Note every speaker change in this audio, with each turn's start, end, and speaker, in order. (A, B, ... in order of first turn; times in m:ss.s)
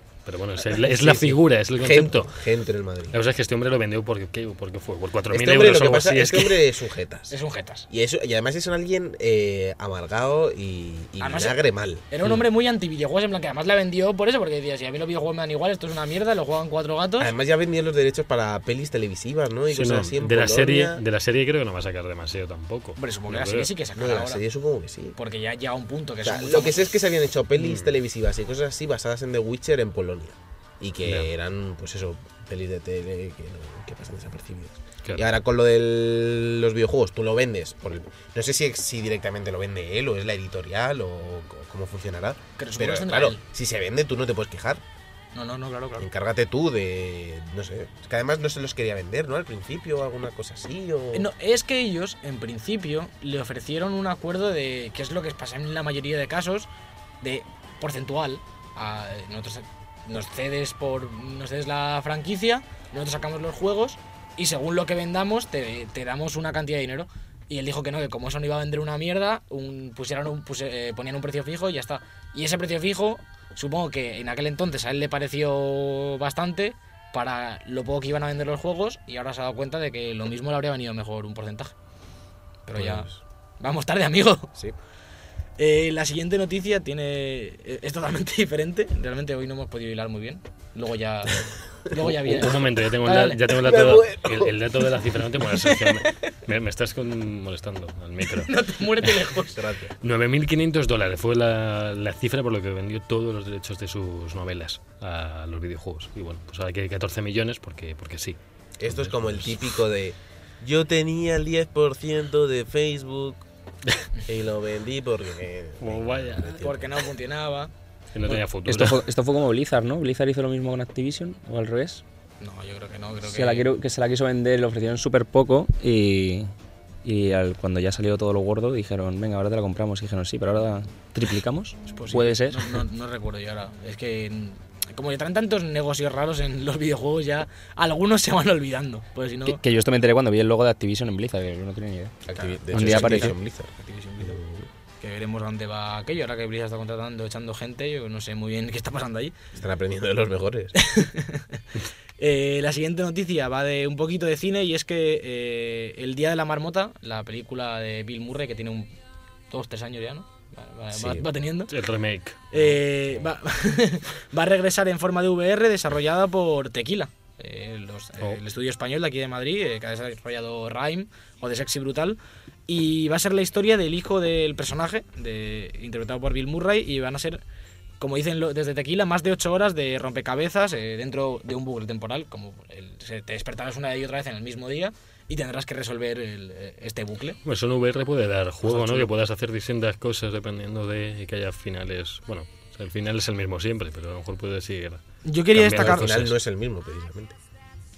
0:00.3-0:02.3 A
0:00.6-0:03.2 B
0:03.1-0:06.6 A
0:05.3-0:07.4 B
0:07.3-0:07.9 C
0:07.9-0:12.0 B
0:11.2-0:17.3 C
0:17.2-0:21.0 B
0:19.7-0:23.7 A
0:23.0-0:24.4 C
0:24.0-0:25.2 B
0:25.2-0:26.9 C
0:26.2-0:44.8 B
0:27.6-0:27.9 A
0:31.0-0:31.3 A
0:42.6-0:43.4 C
0:45.4-0:46.1 C
0:46.0-0:51.3 B
0:51.1-0:56.7 C
0:57.2-1:21.7 C
1:22.7-1:24.5 C
1:22.7-1:23.2 B
1:25.6-1:33.4 C
1:32.0-1:39.3 A
1:33.5-1:34.6 B
1:35.7-1:36.1 C
1:38.3-1:39.6 C
1:39.5-1:39.9 B
1:40.0-1:49.6 A
1:48.8-1:53.4 B
1:54.3-1:57.0 B
1:55.8-1:56.6 A
1:56.5-1:57.7 C
1:58.1-1:59.0 A
1:58.3-2:02.0 D
2:02.4-2:03.7 C
2:03.2-2:06.5 D
2:07.0-2:12.8 D
2:11.9-2:19.6 C
2:19.5-2:23.4 D
2:22.3-2:24.7 B
2:22.3-2:24.4 C
2:25.0-2:29.4 C
2:29.5-2:30.8 B
2:30.8-2:31.6 C
2:32.2-2:38.9 C
2:39.5-2:41.7 C
2:40.9-2:41.3 B
2:41.7-2:42.7 A
2:42.5-2:57.4 C
2:58.0-3:07.4 C
3:07.4-3:15.0 A
3:08.6-3:09.1 C
3:15.2-3:16.2 C
3:15.5-3:16.4 A
3:15.6-3:17.4 B